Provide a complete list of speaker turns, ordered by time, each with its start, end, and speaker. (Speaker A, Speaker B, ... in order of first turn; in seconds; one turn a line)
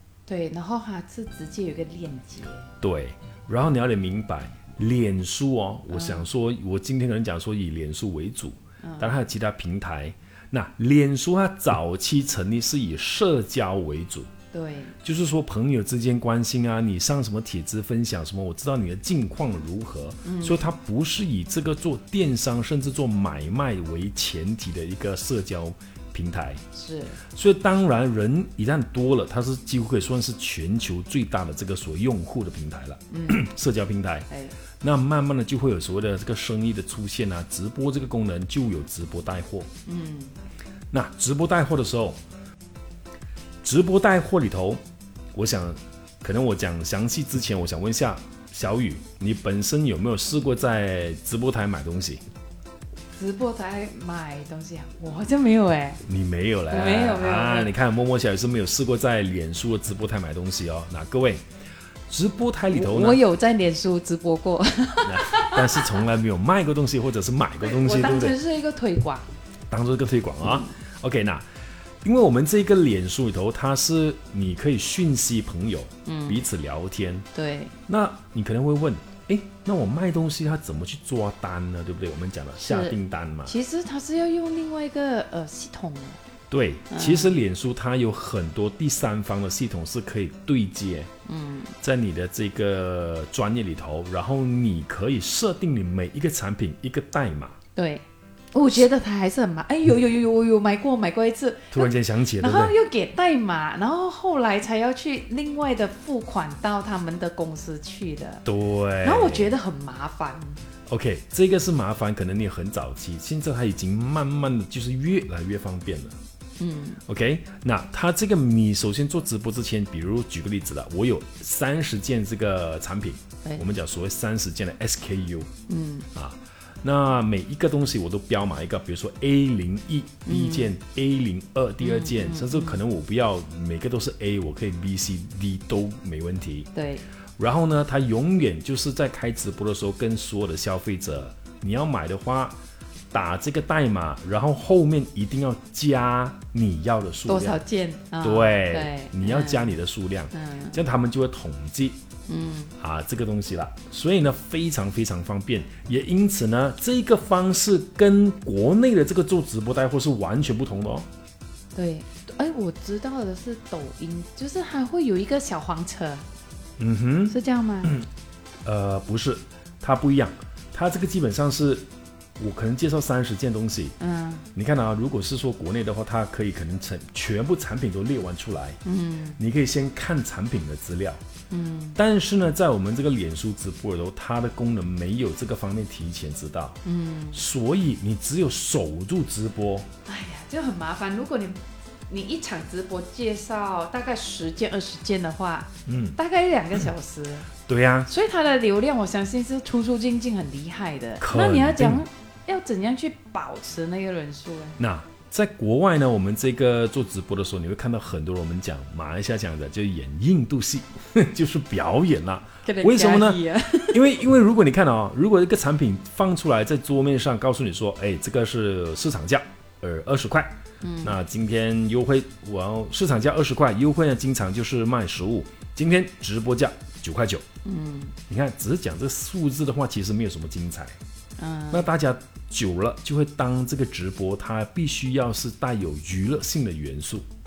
Speaker A: 0.3-2.6
Speaker B: 2.8-14.3
Speaker A: 5.9-6.3
Speaker A: 8.8-9.1
Speaker A: 14.5-14.9
Speaker B: 15.0-26.6
Speaker A: 20.2-20.7
Speaker A: 26.7-27.2
Speaker B: 27.3-34.3
Speaker A: 33.1-33.5
Speaker B: 34.8-39.7
Speaker A: 39.9-40.3
Speaker B: 40.9-42.2
Speaker B: 43.6-44.8
Speaker B: 45.3-52.2
Speaker A: 53.1-56.0
Speaker B: 56.0-61.4
Speaker A: 56.7-57.7
Speaker B: 62.1-63.2
Speaker A: 62.7-66.0
Speaker B: 65.0-68.4
Speaker A: 67.6-69.3
Speaker B: 69.7-71.4
Speaker A: 70.4-70.7
Speaker B: 72.0-77.3
Speaker A: 76.0-76.4
Speaker A: 77.3-77.8
Speaker B: 77.9-83.5
Speaker A: 82.6-86.2
Speaker B: 86.5-91.1
Speaker A: 86.9-87.4
Speaker A: 91.2-91.7
Speaker B: 91.8-97.6
Speaker A: 97.8-108.5
Speaker B: 101.7-102.7
Speaker B: 108.4-109.5
Speaker A: 109.0-110.6
Speaker B: 110.9-116.2
Speaker A: 116.6-117.0
Speaker B: 117.0-125.5
Speaker A: 125.7-126.1
Speaker B: 126.1-136.7
Speaker A: 130.2-130.7
Speaker A: 131.8-132.8
Speaker A: 136.7-137.1
Speaker B: 137.4-142.6
Speaker B: 143.1-147.6
Speaker A: 147.3-149.8
Speaker B: 148.2-152.0
Speaker A: 150.3-150.8
Speaker A: 152.3-152.7
Speaker B: 152.8-161.1
Speaker A: 161.7-166.2
Speaker B: 166.8-168.1
Speaker A: 167.3-168.0
Speaker B: 168.6-171.8
Speaker B: 172.4-173.9
Speaker A: 174.0-174.4
Speaker B: 174.5-178.8
Speaker A: 178.8-179.4
Speaker B: 179.4-181.2
Speaker A: 181.5-182.0
Speaker B: 181.9-186.8
Speaker A: 186.8-187.4
Speaker B: 187.3-189.9
Speaker A: 190.1-197.5
Speaker B: 195.8-196.2
Speaker B: 197.7-198.1
Speaker A: 198.1-204.8
Speaker B: 201.2-202.0
Speaker B: 204.8-227.4
Speaker A: 212.6-214.0
Speaker A: 220.8-221.2
Speaker A: 227.6-228.2
Speaker B: 228.3-231.0
Speaker A: 231.4-231.9
Speaker B: 231.7-237.2